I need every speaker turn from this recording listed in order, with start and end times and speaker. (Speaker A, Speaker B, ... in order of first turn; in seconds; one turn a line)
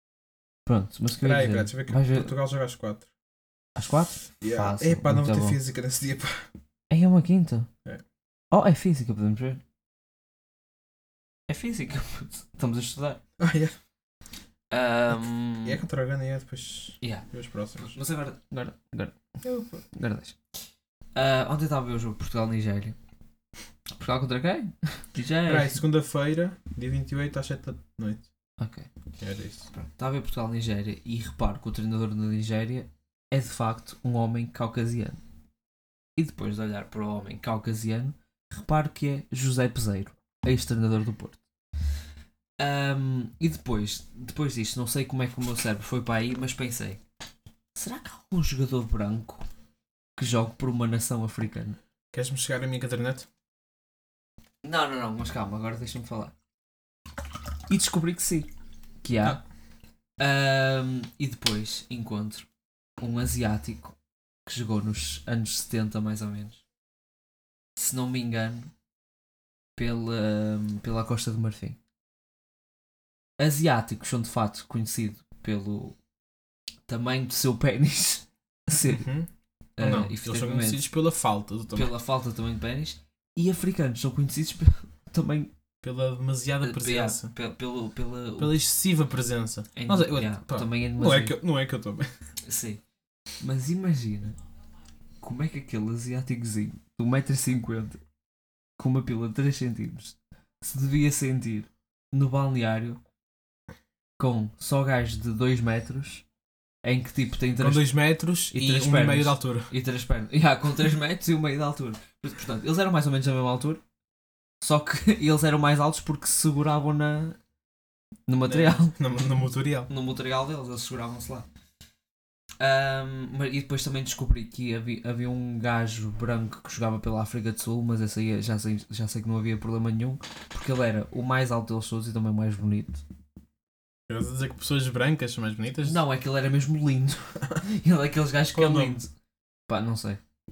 Speaker A: 0.7-2.3
Speaker B: 1.2-3.1
Speaker A: 3.8-5.6
Speaker B: 4.4-6.5
Speaker A: 6.9-7.7
Speaker A: 8.5-9.6
Speaker A: 11.5-13.2
Speaker B: 13.4-13.7
Speaker A: 14.7-15.8
Speaker B: 15.1-17.9
Speaker A: 17.0-17.3
Speaker A: 17.8-19.2
Speaker B: 19.4-19.8
Speaker A: 19.9-20.4
Speaker A: 21.1-23.0
Speaker A: 23.9-25.8
Speaker B: 25.4-28.3
Speaker A: 28.6-28.9
Speaker B: 29.2-29.7
Speaker A: 29.7-35.2
Speaker A: 36.2-41.4
Speaker A: 42.6-47.0
Speaker A: 47.7-49.4
Speaker A: 50.2-51.8
Speaker B: 52.1-53.3
Speaker A: 54.6-56.3
Speaker A: 57.7-58.5
Speaker A: 59.0-59.4
Speaker A: 60.2-62.5
Speaker A: 63.0-63.9
Speaker A: 64.5-66.6
Speaker A: 67.8-68.7
Speaker A: 69.8-71.8
Speaker A: 73.4-76.0
Speaker A: 76.9-79.1
Speaker B: 78.8-79.3
Speaker A: 79.8-80.9
Speaker B: 79.8-81.9
Speaker A: 81.7-85.5
Speaker B: 85.8-87.3
Speaker A: 86.6-88.5
Speaker B: 88.4-92.1
Speaker A: 89.7-91.3
Speaker A: 92.4-92.8
Speaker A: 93.4-94.4
Speaker A: 95.2-98.0
Speaker A: 98.8-103.0
Speaker A: 104.2-106.2
Speaker A: 106.8-107.9
Speaker B: 107.6-109.7
Speaker A: 108.5-113.8
Speaker A: 114.6-117.4
Speaker A: 118.3-119.0
Speaker B: 118.5-119.9
Speaker A: 119.9-121.5
Speaker A: 122.6-133.0
Speaker B: 134.1-136.0
Speaker A: 135.8-139.1
Speaker B: 138.5-139.0
Speaker A: 139.7-140.2